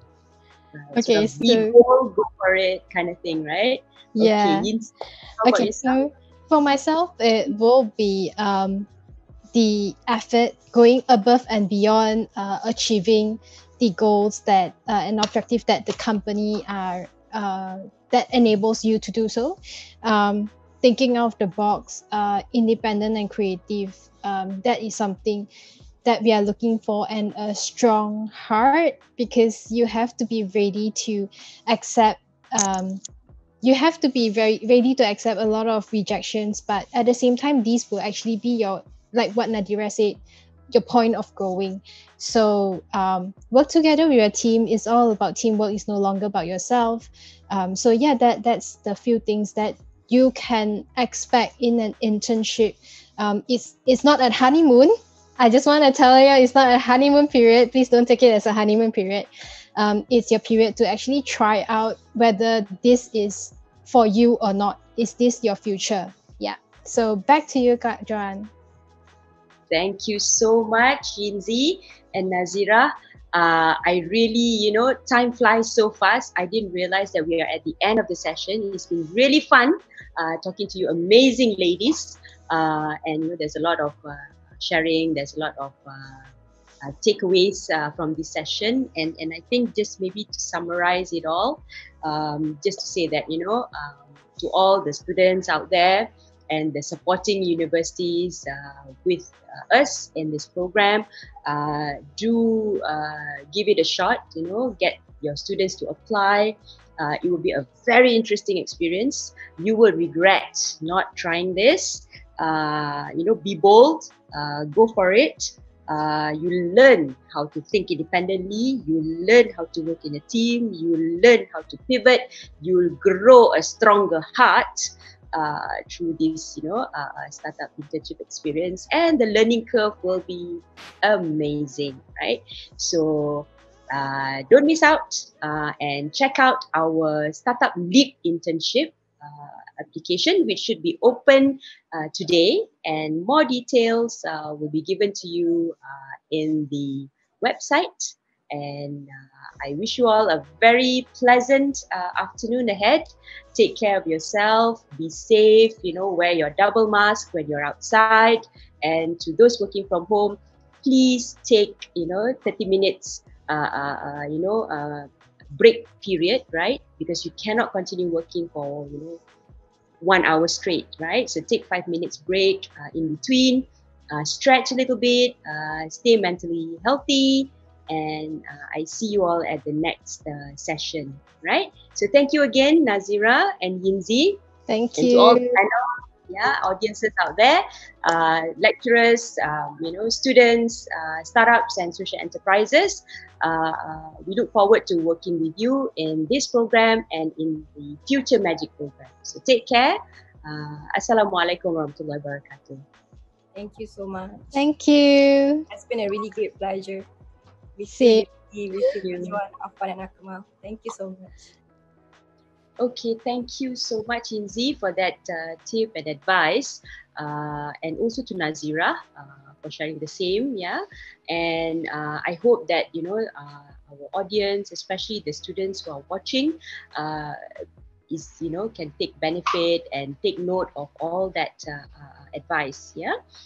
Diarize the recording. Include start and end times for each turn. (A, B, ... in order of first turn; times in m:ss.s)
0:00.7-0:06.0 A
0:00.9-0:01.8 B
0:04.2-0:04.7 B
0:05.4-0:08.9 B
0:09.5-0:25.5 B
0:26.0-0:33.0 B
0:33.6-0:40.2 B
0:40.7-1:08.5 B
1:09.7-1:26.3 A
1:26.8-2:49.2 A
2:50.0-3:04.4 A
3:04.7-3:05.6 B
3:05.0-3:05.8 A
3:06.3-3:22.8 A
3:23.5-3:24.6 C
3:24.5-3:25.7 B
3:25.7-3:27.0 C
3:27.8-3:31.4 C
3:27.9-3:28.2 B
3:28.9-3:29.4 A
3:32.8-3:47.4 A
3:48.1-3:53.1 A